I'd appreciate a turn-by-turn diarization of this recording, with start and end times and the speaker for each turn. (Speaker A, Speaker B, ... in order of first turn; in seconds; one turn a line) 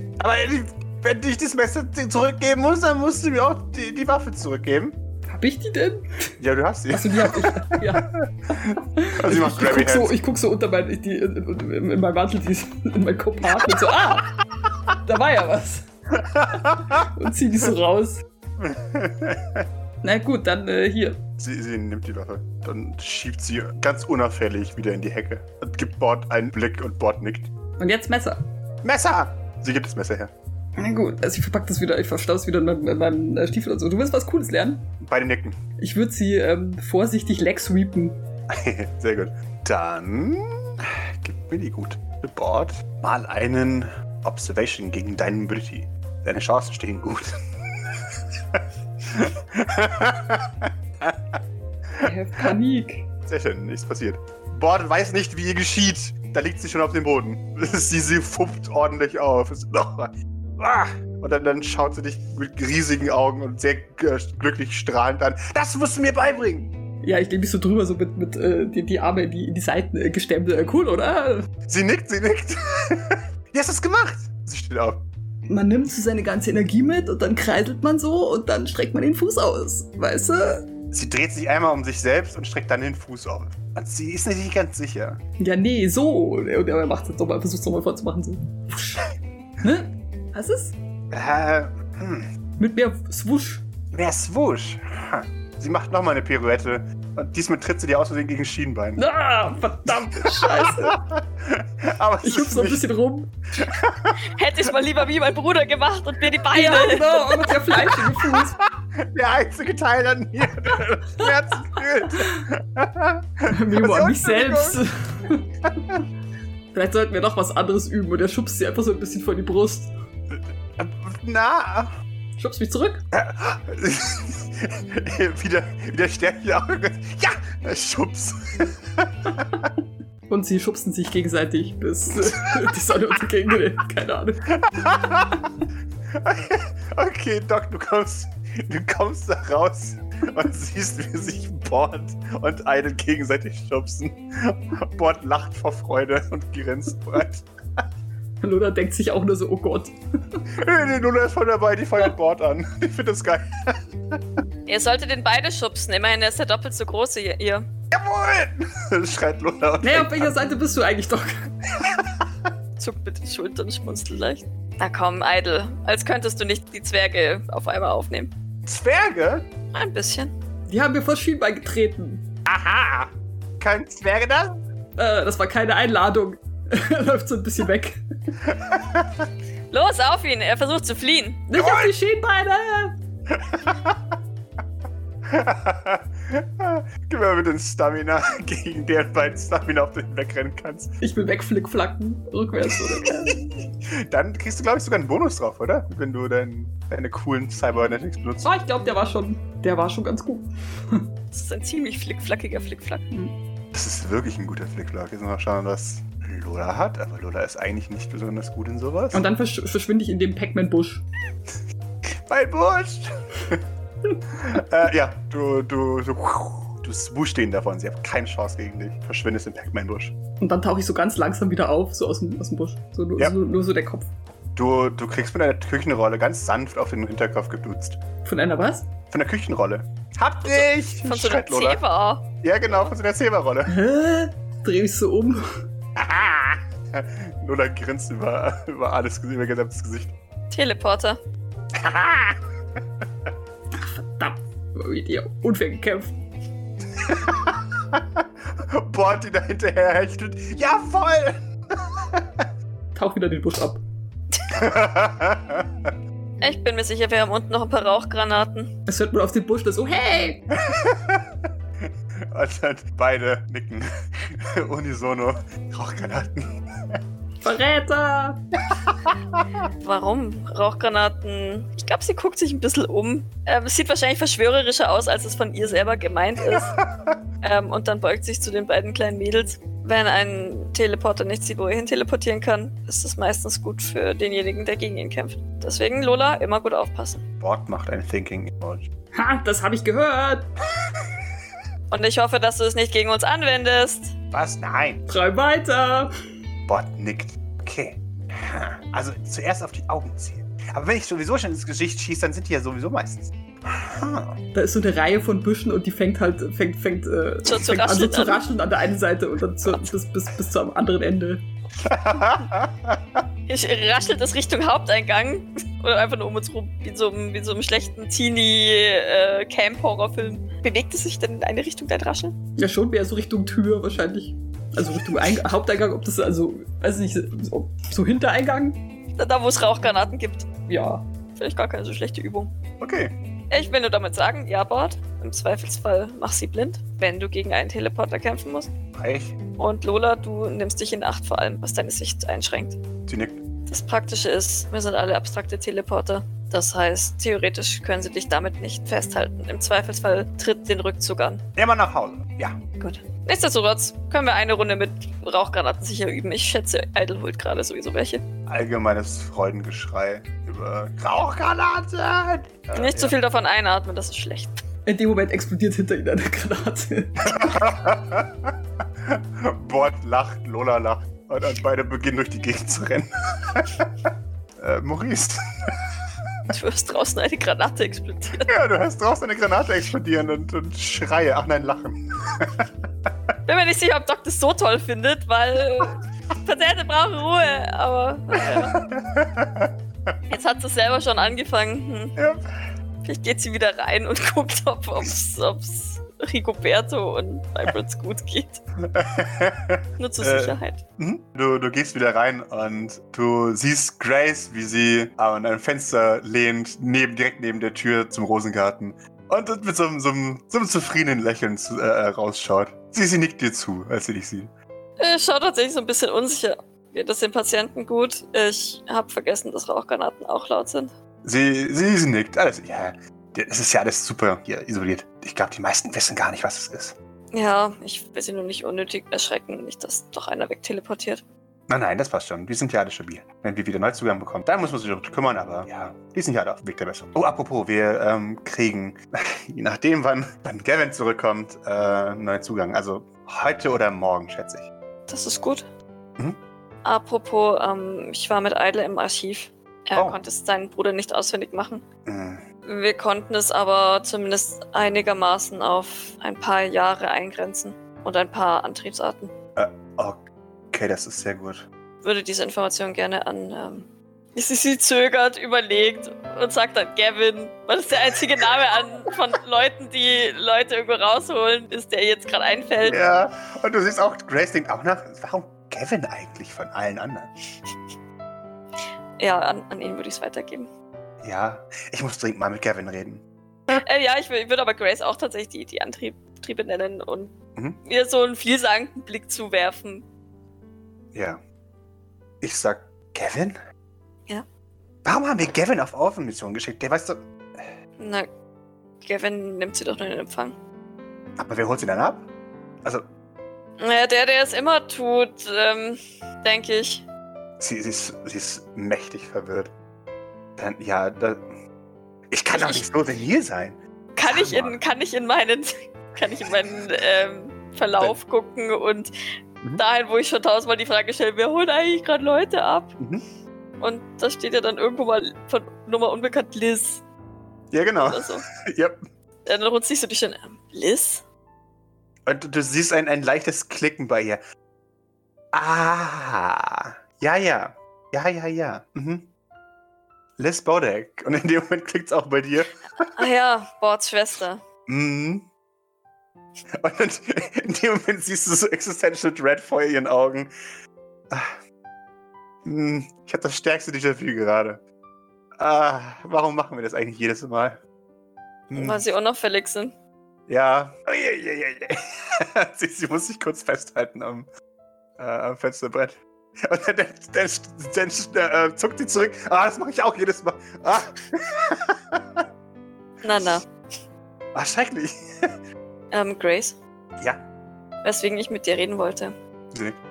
Speaker A: 0.2-5.0
Speaker B: 5.3-6.3
Speaker A: 6.4-10.2
Speaker B: 6.9-8.1
Speaker B: 9.0-14.4
Speaker B: 15.0-15.9
Speaker A: 16.2-17.1
Speaker B: 16.9-18.2
Speaker A: 18.6-19.7
Speaker B: 20.0-21.2
Speaker A: 21.4-27.5
Speaker B: 27.8-28.4
Speaker A: 28.8-30.3
Speaker B: 30.8-34.9
Speaker A: 35.0-35.6
Speaker B: 35.8-38.2
Speaker A: 38.5-47.4
Speaker A: 48.5-51.4
Speaker B: 52.0-53.1
Speaker A: 53.3-66.7
Speaker B: 67.0-71.5
Speaker A: 71.7-75.0
Speaker B: 75.5-80.7
Speaker A: 80.9-85.2
Speaker B: 85.4-90.8
Speaker A: 91.1-92.3
Speaker B: 92.6-93.6
Speaker A: 93.9-99.0
Speaker B: 99.0-101.0
Speaker A: 100.0-102.8
Speaker B: 102.2-103.3
Speaker A: 103.6-104.2
Speaker C: 104.3-107.5
Speaker B: 106.5-108.6
Speaker A: 108.3-114.8
Speaker B: 113.5-115.5
Speaker B: 116.7-119.9
Speaker A: 120.3-121.9
Speaker B: 122.4-123.0
Speaker A: 123.1-129.7
Speaker B: 130.3-134.5
Speaker A: 134.7-135.5
Speaker A: 136.1-147.8
Speaker B: 148.4-150.4
Speaker A: 150.6-154.2
Speaker C: 154.7-157.7
Speaker A: 157.9-160.4
Speaker B: 159.8-161.5
Speaker A: 161.8-162.2
Speaker C: 162.8-168.3
Speaker A: 168.7-169.5
Speaker C: 169.7-170.3
Speaker B: 170.7-172.2
Speaker A: 172.5-174.6
Speaker B: 175.0-178.0
Speaker A: 178.5-179.3
Speaker C: 179.7-181.4
Speaker B: 181.5-182.9
Speaker A: 181.6-181.9
Speaker A: 183.3-184.2
Speaker A: 185.3-190.9
Speaker B: 191.0-193.5
Speaker A: 193.0-193.3
Speaker A: 193.9-198.5
Speaker B: 198.4-201.1
Speaker C: 201.3-203.1
Speaker A: 203.7-209.2
Speaker B: 209.1-211.0
Speaker A: 212.1-213.6
Speaker A: 214.3-220.2
Speaker B: 220.4-224.1
Speaker A: 224.6-228.0
Speaker B: 228.2-228.9
Speaker A: 229.1-231.8
Speaker C: 230.4-232.9
Speaker A: 232.4-233.8
Speaker B: 233.7-235.5
Speaker A: 236.0-240.1
Speaker C: 240.5-241.2
Speaker A: 241.8-242.4
Speaker B: 243.8-246.1
Speaker A: 247.0-252.5
Speaker B: 252.9-253.8
Speaker A: 254.5-255.9
Speaker C: 256.4-258.7
Speaker B: 258.9-260.4
Speaker A: 260.6-261.2
Speaker A: 261.8-267.0
Speaker B: 267.4-268.4
Speaker A: 268.7-269.2
Speaker C: 269.8-276.7
Speaker A: 276.4-277.2
Speaker C: 277.4-287.2
Speaker A: 287.4-288.9
Speaker B: 289.1-290.5
Speaker C: 291.9-294.1
Speaker A: 294.3-295.0
Speaker B: 295.1-296.1
Speaker A: 296.7-304.4
Speaker B: 304.5-311.4
Speaker C: 307.4-308.4
Speaker A: 311.8-313.2
Speaker C: 313.5-322.4
Speaker B: 322.6-328.8
Speaker C: 329.2-330.5
Speaker B: 330.7-331.1
Speaker C: 331.4-332.5
Speaker A: 332.8-333.1
Speaker C: 333.5-338.7
Speaker A: 338.9-339.4
Speaker C: 339.6-342.8
Speaker A: 343.1-343.4
Speaker C: 343.7-351.4
Speaker A: 351.6-352.6
Speaker C: 352.8-358.2
Speaker A: 358.5-363.2
Speaker C: 362.7-364.6
Speaker B: 364.9-367.4
Speaker A: 367.2-368.5
Speaker A: 369.1-373.9
Speaker A: 374.6-375.7
Speaker C: 376.5-378.5
Speaker A: 378.5-382.7
Speaker C: 383.5-388.8
Speaker A: 388.4-389.7
Speaker C: 390.3-392.2
Speaker A: 392.2-392.4
Speaker C: 393.0-398.6
Speaker A: 398.9-414.5
Speaker C: 400.0-400.8
Speaker C: 415.0-420.9
Speaker A: 421.2-427.0
Speaker C: 427.3-431.2
Speaker A: 431.7-444.7
Speaker C: 445.1-445.7
Speaker C: 446.8-451.8
Speaker A: 449.9-450.2
Speaker A: 452.1-452.4
Speaker C: 452.6-459.3
Speaker A: 459.6-461.7
Speaker C: 462.0-473.0
Speaker A: 472.8-477.3
Speaker C: 479.2-480.7
Speaker A: 481.2-483.8
Speaker C: 483.8-490.1
Speaker A: 487.6-487.8
Speaker A: 491.1-491.4
Speaker A: 492.4-493.6
Speaker A: 495.1-497.7
Speaker C: 498.0-498.3
Speaker C: 499.0-500.6
Speaker A: 501.4-502.3
Speaker C: 503.8-507.1
Speaker A: 507.6-509.7
Speaker A: 510.6-511.5
Speaker A: 512.3-514.8
Speaker C: 512.5-512.9
Speaker C: 514.2-519.1
Speaker C: 519.8-523.0
Speaker A: 523.0-523.2
Speaker C: 523.8-527.0
Speaker A: 527.7-529.0
Speaker C: 528.0-528.4
Speaker C: 529.5-531.2
Speaker A: 532.3-534.4
Speaker A: 535.5-539.3
Speaker A: 540.4-542.8
Speaker C: 543.0-544.6
Speaker A: 544.9-545.5
Speaker A: 546.8-550.5
Speaker A: 551.3-551.6
Speaker A: 552.6-554.8
Speaker A: 555.6-557.8
Speaker A: 558.7-559.0
Speaker C: 558.8-560.0
Speaker A: 560.5-564.5
Speaker A: 565.2-572.4
Speaker C: 573.2-573.6
Speaker A: 574.5-575.5
Speaker C: 576.1-576.8
Speaker C: 578.0-579.3
Speaker A: 579.7-580.0